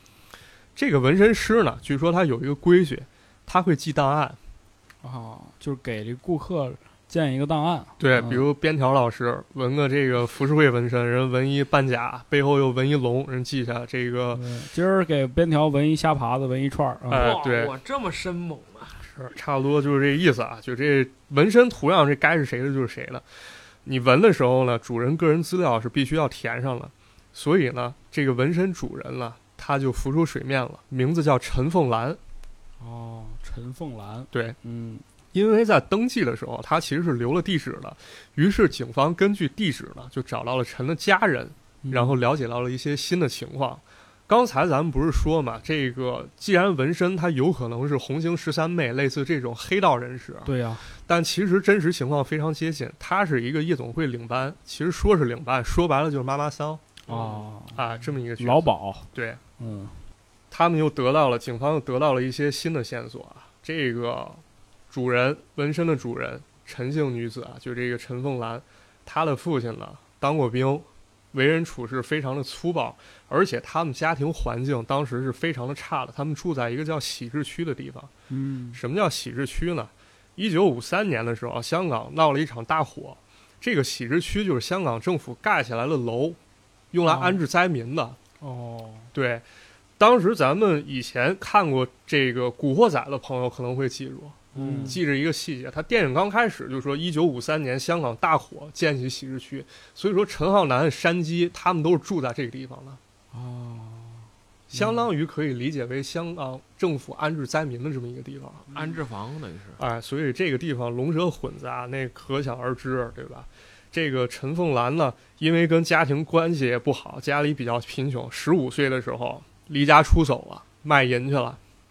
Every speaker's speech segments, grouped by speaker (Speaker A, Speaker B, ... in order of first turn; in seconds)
Speaker A: 0.8-4.4, 8.0-14.4, 17.1-17.7, 19.1-23.2, 23.8-32.2, 34.3-34.6, 35.3-50.5, 51.0-57.0, 57.7-59.4, 60.5-78.1, 78.7-86.4, 86.9-88.2, 89.1-89.5, 90.0-103.0, 104.7-108.6, 109.8-121.6
Speaker B: 5.0-8.4, 14.3-17.3, 32.8-35.0, 41.8-42.1, 50.5-50.9, 57.1-60.0, 78.3-78.8, 87.0-87.4, 88.4-89.1, 94.5-95.0, 103.3-105.1, 108.7-109.0
Speaker C: 17.1-19.1, 57.1-57.4, 108.7-109.8